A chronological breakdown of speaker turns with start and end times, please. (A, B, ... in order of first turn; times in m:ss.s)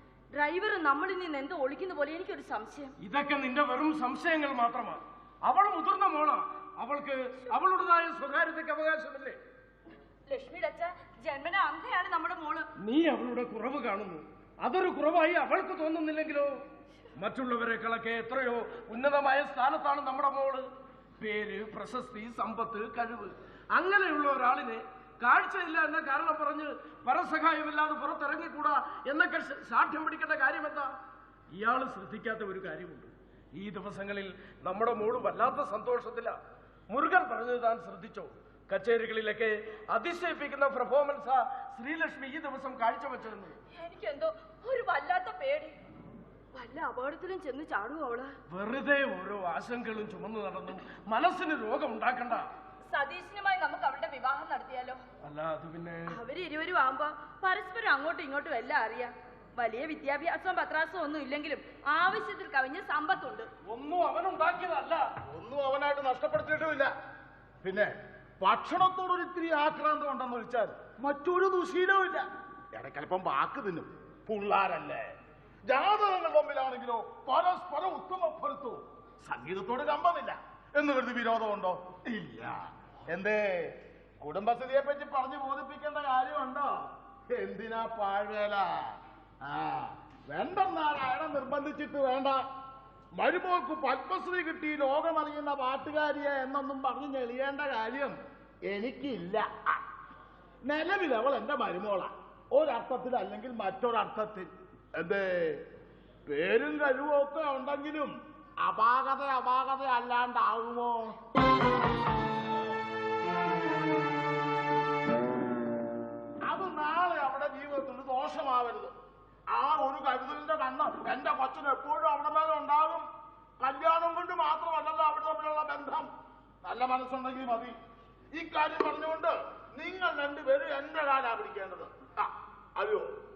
0:00.4-0:02.9 A
0:03.0-0:09.4 B
0:10.3-0:12.7 A
0:12.8-0:16.6 B
0:17.2-0:20.7 B
0:21.2-0:30.9 B
0:31.5-0:36.4 B
0:36.9-0:43.6 B
0:43.7-0:45.8 A
0:46.5-0:48.3 A
0:48.5-0:52.5 B
0:52.9-0:55.0 A
0:55.2-0:56.2 B
0:56.1-1:03.5 A
1:03.6-1:05.0 B
1:05.3-1:06.9 C
1:07.6-1:15.1 C
1:15.7-1:32.4 C
1:33.2-1:39.8 C
1:40.6-1:45.6 C
1:46.3-1:51.2 C
1:56.4-1:59.0 C
1:59.5-2:03.0 C
2:03.6-2:06.1 C
2:06.6-2:07.8 C
2:08.3-2:13.1 C